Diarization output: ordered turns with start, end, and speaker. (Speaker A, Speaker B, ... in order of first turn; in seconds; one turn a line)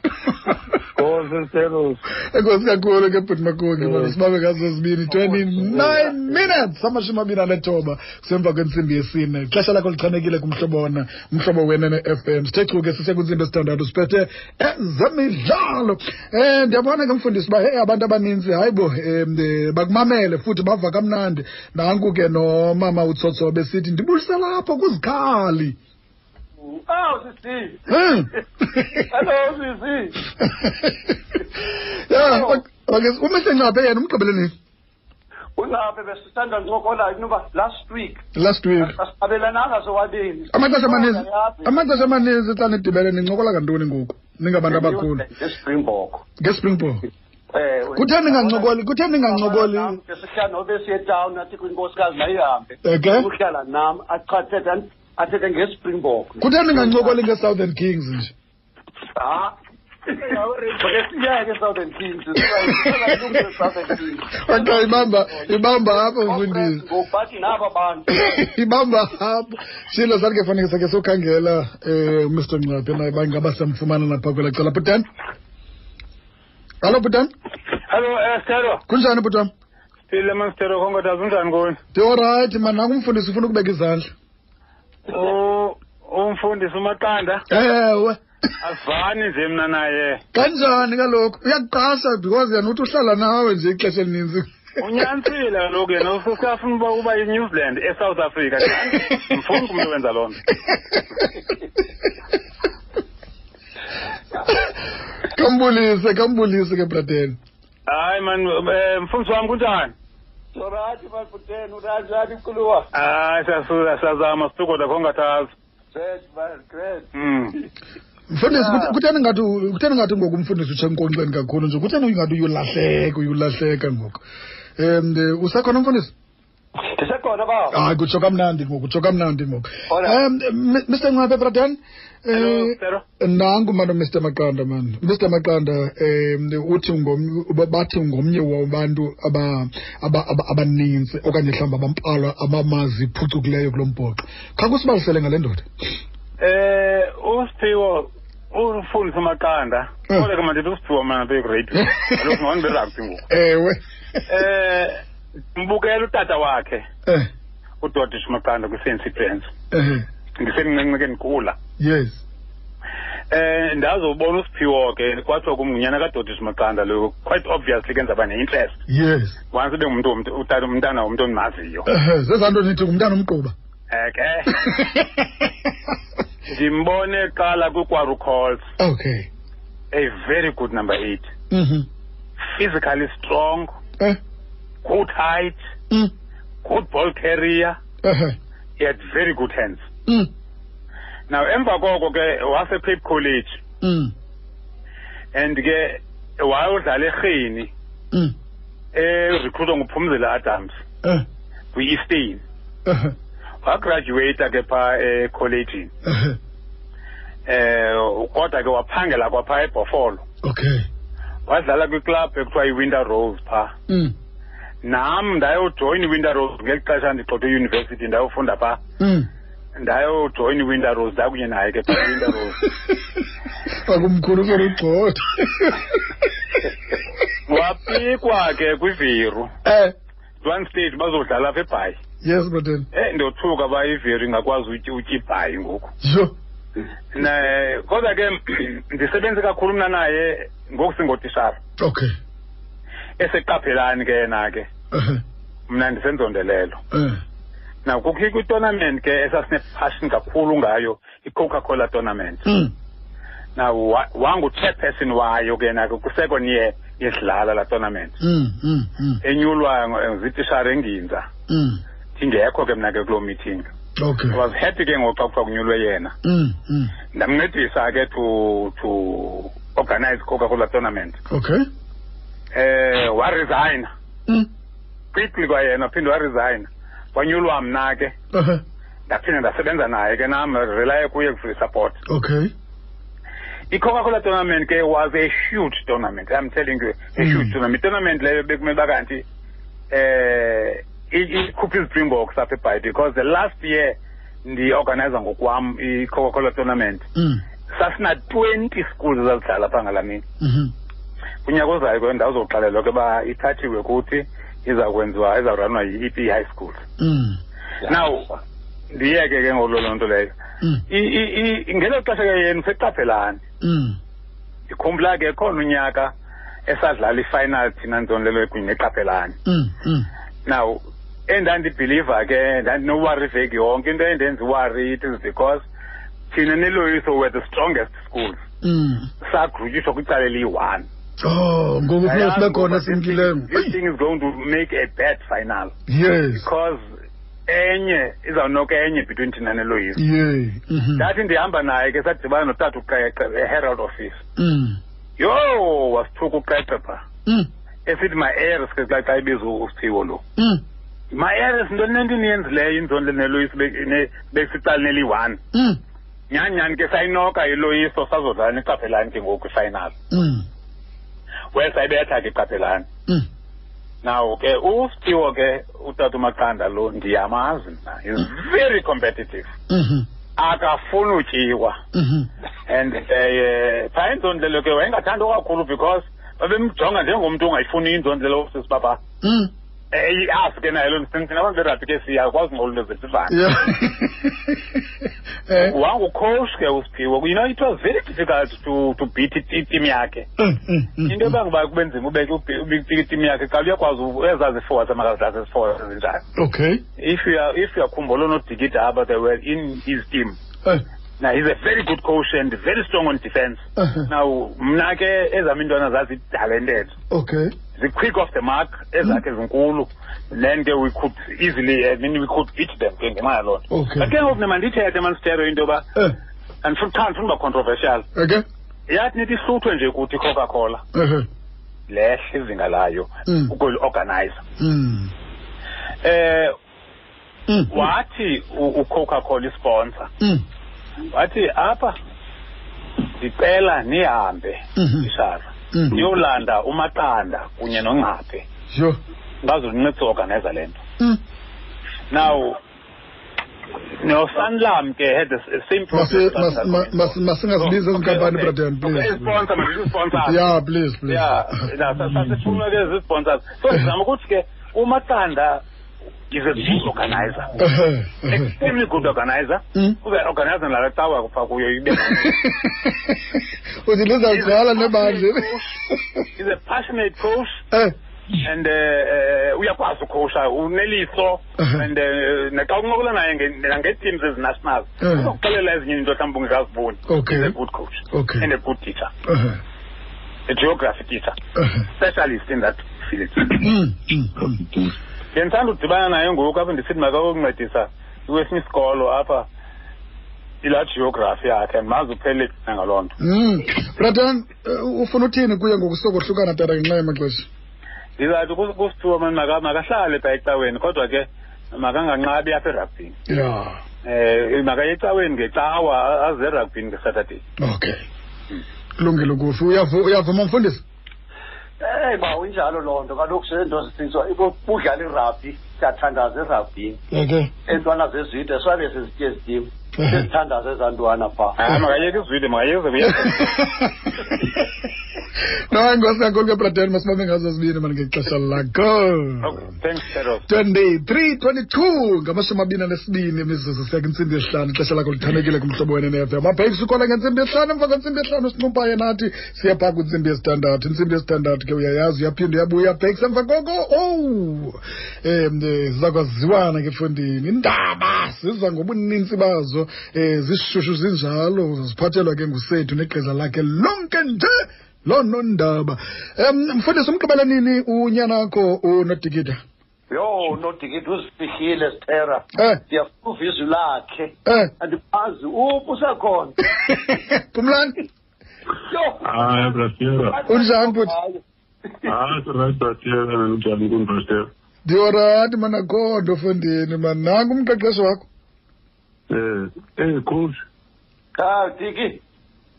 Speaker A: 0.2-0.6
Speaker B: 0.8-2.0
Speaker A: 2.3-25.8
Speaker B: 3.8-4.1
Speaker B: 5.1-6.3
Speaker C: 26.6-28.2
Speaker A: 27.9-29.1
Speaker C: 29.0-30.2
Speaker A: 30.4-31.2
Speaker A: 32.1-34.5
Speaker C: 32.1-32.6
Speaker C: 35.6-38.2
Speaker A: 38.3-39.0
Speaker C: 38.8-42.1
Speaker A: 40.5-45.2
Speaker C: 44.7-46.2
Speaker A: 46.4-47.0
Speaker C: 47.5-57.2
Speaker A: 47.9-50.0
Speaker A: 52.8-53.3
Speaker A: 56.4-58.3
Speaker C: 59.1-59.5
Speaker C: 60.1-68.3
Speaker A: 62.6-62.9
Speaker A: 64.4-66.8
Speaker A: 68.2-75.0
Speaker A: 76.8-77.3
Speaker D: 77.9-78.8
Speaker A: 78.9-79.5
Speaker D: 80.1-81.8
Speaker A: 81.9-84.1
Speaker D: 85.1-87.4
Speaker A: 87.5-88.2
Speaker D: 88.6-90.2
Speaker A: 90.3-94.5
Speaker D: 94.8-100.4
Speaker A: 100.7-101.2
Speaker A: 105.3-107.4
Speaker D: 107.9-109.9
Speaker C: 110.5-112.9
Speaker D: 112.9-115.5
Speaker C: 115.9-117.1
Speaker D: 117.1-117.5
Speaker A: 118.3-124.2
Speaker C: 118.5-119.0
Speaker A: 124.8-126.1
Speaker C: 126.8-127.8
Speaker A: 127.7-145.7
Speaker C: 129.9-130.2
Speaker D: 132.3-133.0
Speaker D: 146.4-153.2
Speaker A: 151.9-152.4
Speaker A: 153.3-154.2
Speaker D: 154.3-155.0
Speaker D: 155.5-156.8
Speaker D: 157.8-159.5
Speaker A: 159.7-160.1
Speaker D: 160.4-161.6
Speaker A: 161.8-162.2
Speaker D: 163.3-168.8
Speaker A: 168.9-169.4
Speaker D: 169.5-171.9
Speaker A: 171.8-173.5
Speaker D: 173.9-174.6
Speaker A: 174.5-175.7
Speaker D: 176.5-178.7
Speaker A: 178.8-179.3
Speaker D: 179.9-181.3
Speaker A: 181.5-181.9
Speaker D: 182.4-183.8
Speaker D: 184.8-185.6
Speaker D: 186.6-187.8
Speaker A: 188.0-188.3
Speaker D: 188.8-189.8
Speaker D: 191.3-193.6
Speaker A: 193.8-194.1
Speaker D: 195.3-197.7
Speaker D: 198.9-200.8
Speaker D: 201.7-202.4
Speaker A: 202.8-203.1
Speaker D: 203.6-205.9
Speaker A: 206.0-206.4
Speaker D: 207.5-210.2
Speaker A: 210.4-210.8
Speaker D: 211.5-213.7
Speaker A: 213.9-214.1
Speaker D: 214.8-218.8
Speaker A: 219.0-219.3
Speaker D: 219.8-222.7
Speaker A: 223.8-226.0
Speaker D: 227.5-229.5
Speaker A: 229.6-229.9
Speaker D: 230.4-232.0
Speaker A: 232.2-232.9
Speaker D: 232.9-235.9
Speaker A: 236.0-236.3
Speaker D: 237.1-241.6
Speaker A: 241.8-242.1
Speaker D: 243.2-244.7
Speaker A: 244.9-245.2
Speaker D: 245.7-246.8
Speaker A: 246.9-247.2
Speaker D: 247.8-252.4
Speaker A: 252.4-252.7
Speaker D: 253.6-258.1
Speaker A: 258.2-259.2
Speaker D: 259.2-261.3
Speaker A: 261.5-261.8
Speaker D: 262.2-263.7
Speaker A: 264.0-264.4
Speaker D: 264.3-266.1
Speaker A: 266.2-266.9
Speaker D: 267.1-271.2
Speaker A: 271.3-271.6
Speaker D: 272.5-273.9
Speaker D: 275.1-278.1
Speaker A: 278.3-278.6
Speaker D: 279.1-282.0
Speaker A: 282.1-282.5
Speaker D: 283.7-289.2
Speaker A: 287.2-287.5
Speaker D: 289.9-297.1
Speaker A: 297.1-297.4
Speaker D: 297.7-300.2
Speaker A: 300.4-300.7
Speaker D: 301.4-306.8
Speaker A: 307.0-307.4
Speaker D: 307.8-308.3
Speaker D: 308.9-310.3
Speaker D: 310.9-313.4
Speaker A: 313.6-314.0
Speaker D: 314.7-316.1
Speaker D: 316.7-319.4
Speaker A: 319.4-320.1
Speaker D: 320.4-325.6
Speaker D: 326.3-328.4
Speaker A: 328.6-329.1
Speaker D: 329.2-330.9
Speaker A: 331.2-333.7
Speaker D: 332.0-335.7
Speaker A: 335.9-336.5
Speaker D: 336.4-336.8
Speaker D: 337.5-340.0
Speaker A: 339.9-341.1
Speaker D: 340.9-344.2
Speaker A: 344.4-344.8
Speaker D: 345.2-347.0
Speaker D: 347.9-350.2
Speaker A: 350.4-350.6
Speaker D: 351.1-355.4
Speaker A: 355.5-355.8
Speaker D: 356.3-359.9
Speaker A: 360.1-360.4
Speaker D: 361.5-362.9
Speaker D: 364.0-369.5
Speaker A: 369.7-370.1
Speaker D: 370.4-371.8
Speaker A: 371.9-372.3
Speaker D: 372.7-379.0
Speaker A: 379.2-379.5
Speaker D: 379.9-383.6
Speaker A: 383.3-384.8
Speaker A: 385.5-385.7
Speaker D: 385.5-390.3
Speaker A: 390.4-391.3
Speaker D: 391.0-396.2
Speaker A: 396.4-396.8
Speaker D: 397.0-400.4
Speaker D: 401.2-406.9
Speaker A: 403.8-404.1
Speaker A: 407.1-407.5
Speaker D: 407.8-415.9
Speaker A: 413.7-414.1
Speaker D: 416.6-418.1
Speaker A: 418.1-418.4
Speaker D: 418.9-420.8
Speaker A: 420.9-421.3
Speaker D: 421.9-424.4
Speaker A: 423.3-423.5
Speaker A: 424.6-425.1
Speaker D: 426.0-426.5
Speaker A: 427.5-427.9
Speaker D: 427.7-430.1
Speaker D: 431.1-432.0
Speaker D: 433.2-438.4
Speaker A: 434.8-435.1
Speaker A: 435.7-436.0
Speaker A: 438.7-439.0
Speaker D: 439.4-440.8
Speaker D: 442.1-442.6
Speaker D: 444.0-450.5
Speaker A: 445.9-449.4
Speaker A: 450.1-451.3
Speaker D: 451.1-455.6
Speaker D: 456.3-457.7
Speaker A: 457.6-458.5
Speaker D: 458.3-462.5
Speaker A: 461.9-466.2
Speaker D: 464.3-465.7
Speaker D: 466.4-467.6
Speaker D: 468.4-479.1
Speaker A: 471.6-471.9
Speaker A: 475.0-475.3
Speaker A: 477.1-477.5
Speaker A: 478.1-478.5
Speaker A: 479.2-479.6
Speaker D: 480.5-481.4
Speaker A: 481.6-481.8
Speaker D: 481.9-483.7
Speaker A: 483.5-484.6
Speaker E: 484.4-484.9
Speaker D: 485.3-489.5
Speaker D: 490.6-493.1
Speaker A: 493.2-497.5
Speaker D: 498.2-503.2
Speaker A: 503.3-503.8
Speaker D: 504.0-507.4
Speaker A: 507.6-508.0
Speaker A: 509.0-510.8
Speaker C: 511.8-517.0
Speaker A: 517.1-517.5
Speaker C: 517.7-521.6
Speaker A: 520.0-520.2
Speaker D: 521.6-523.7
Speaker A: 523.0-524.4
Speaker A: 525.7-529.6
Speaker D: 529.4-530.4
Speaker A: 530.5-559.6
Speaker C: 560.1-566.6
Speaker A: 562.5-562.8
Speaker A: 564.5-564.7
Speaker A: 566.9-568.0
Speaker C: 568.9-569.7
Speaker E: 569.2-570.4
Speaker C: 570.3-571.4
Speaker A: 570.5-571.1
Speaker E: 572.0-574.5
Speaker A: 574.8-578.2
Speaker E: 579.3-580.6
Speaker C: 581.4-582.2